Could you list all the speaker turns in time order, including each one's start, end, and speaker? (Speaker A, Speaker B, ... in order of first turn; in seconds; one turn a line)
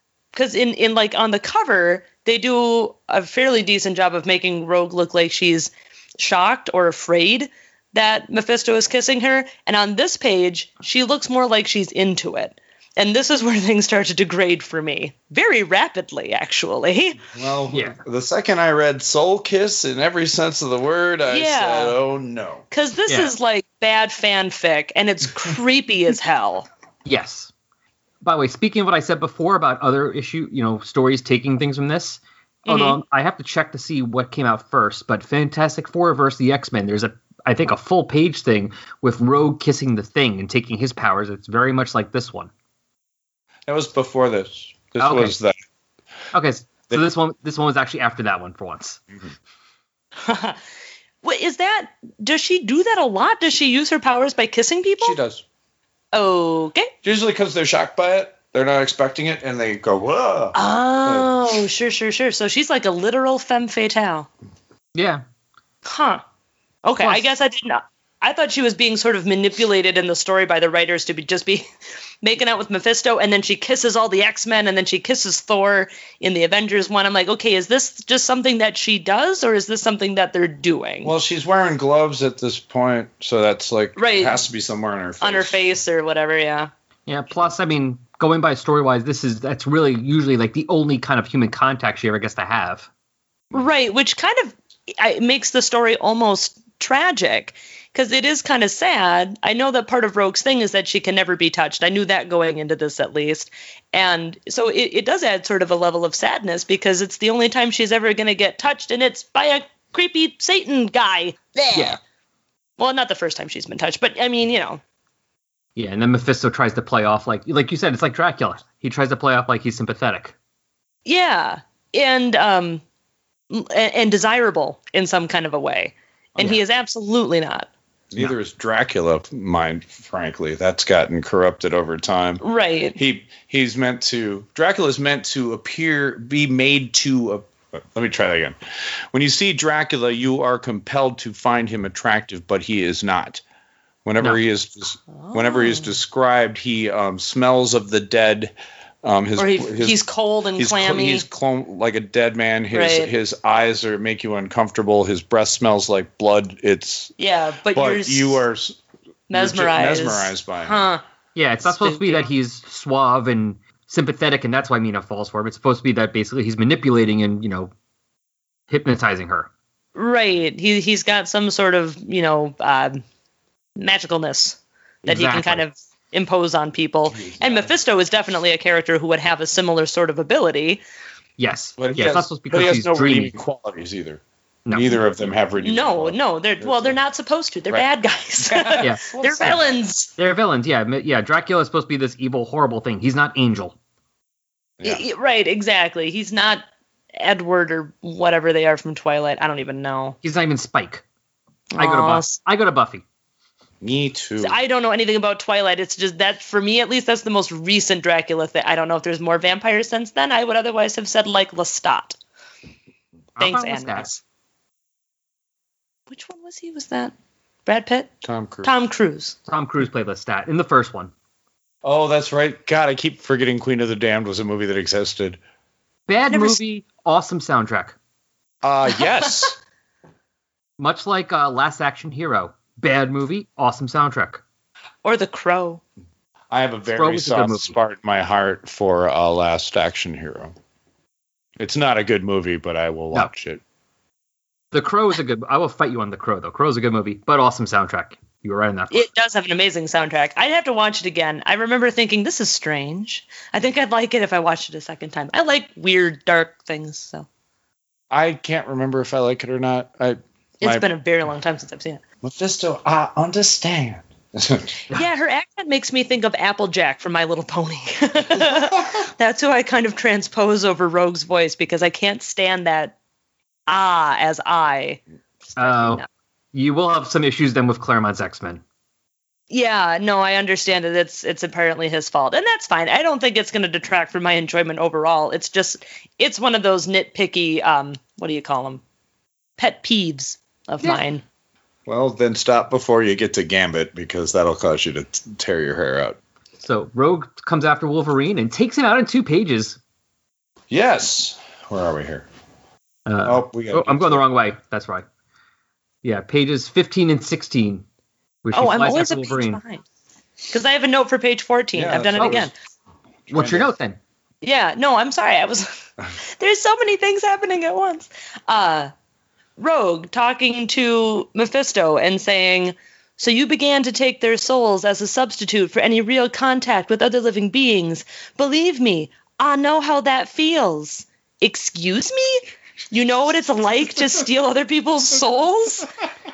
Speaker A: 0.3-17.2
Speaker B: 17.3-22.6
Speaker C: 17.7-18.0
Speaker A: 21.3-22.0
Speaker A: 22.7-26.7
Speaker C: 23.1-23.3
Speaker C: 27.0-27.5
Speaker C: 28.2-42.5
Speaker A: 32.6-33.0
Speaker B: 43.7-45.5
Speaker C: 45.0-45.4
Speaker C: 46.3-49.0
Speaker A: 50.2-50.6
Speaker A: 51.2-55.2
Speaker B: 55.0-55.4
Speaker A: 56.1-56.9
Speaker B: 57.0-61.3
Speaker A: 60.5-64.3
Speaker C: 64.9-65.2
Speaker A: 65.8-66.2
Speaker A: 66.8-71.7
Speaker A: 72.2-81.1
Speaker B: 81.0-85.6
Speaker A: 84.0-84.4
Speaker A: 85.2-86.7
Speaker C: 87.1-92.9
Speaker A: 93.5-112.0
Speaker C: 111.7-112.0
Speaker A: 112.8-114.8
Speaker C: 115.8-120.3
Speaker A: 121.0-122.8
Speaker A: 123.5-127.7
Speaker B: 128.1-132.4
Speaker A: 132.4-133.0
Speaker B: 132.9-138.6
Speaker B: 139.1-143.4
Speaker B: 144.0-150.0
Speaker A: 145.2-145.9
Speaker A: 149.4-151.2
Speaker B: 150.6-157.1
Speaker A: 152.7-153.1
Speaker A: 157.2-158.4
Speaker B: 157.7-158.8
Speaker A: 159.3-161.0
Speaker B: 159.3-160.8
Speaker C: 161.3-167.7
Speaker A: 161.6-162.3
Speaker C: 168.7-169.5
Speaker A: 169.9-173.0
Speaker A: 173.8-180.8
Speaker C: 175.0-175.7
Speaker B: 177.1-177.7
Speaker C: 181.4-183.3
Speaker B: 181.8-187.0
Speaker C: 184.7-184.9
Speaker A: 185.6-190.1
Speaker B: 188.4-189.8
Speaker C: 188.8-189.6
Speaker C: 190.2-193.7
Speaker A: 194.8-196.6
Speaker A: 197.2-200.2
Speaker C: 200.2-201.0
Speaker A: 201.7-202.3
Speaker C: 201.8-203.0
Speaker B: 203.8-204.6
Speaker A: 204.4-212.2
Speaker C: 213.4-214.2
Speaker A: 213.4-214.1
Speaker A: 216.1-217.1
Speaker A: 217.7-218.1
Speaker B: 218.2-218.7
Speaker A: 218.6-219.3
Speaker C: 219.5-221.1
Speaker B: 221.8-225.4
Speaker C: 226.1-227.9
Speaker A: 226.3-226.6
Speaker B: 228.6-229.6
Speaker A: 229.0-229.4
Speaker C: 230.8-234.4
Speaker A: 235.0-235.8
Speaker B: 236.5-240.5
Speaker C: 236.9-237.8
Speaker B: 241.6-243.6
Speaker C: 244.7-249.1
Speaker A: 248.9-257.2
Speaker B: 258.1-260.9
Speaker A: 260.6-262.0
Speaker B: 262.2-264.7
Speaker A: 264.9-272.9
Speaker A: 273.7-275.0
Speaker A: 275.5-276.1
Speaker C: 275.6-278.6
Speaker A: 279.5-288.8
Speaker A: 289.6-291.2
Speaker B: 291.9-296.2
Speaker C: 296.6-299.8
Speaker B: 300.7-302.3
Speaker C: 303.1-305.0
Speaker B: 303.2-304.2
Speaker C: 306.0-307.8
Speaker C: 308.4-309.6
Speaker A: 308.5-309.8
Speaker A: 310.5-312.5
Speaker B: 311.7-312.5
Speaker C: 312.2-312.4
Speaker B: 313.3-313.7
Speaker C: 313.3-314.0
Speaker A: 314.4-315.7
Speaker A: 316.4-318.9
Speaker A: 319.6-335.9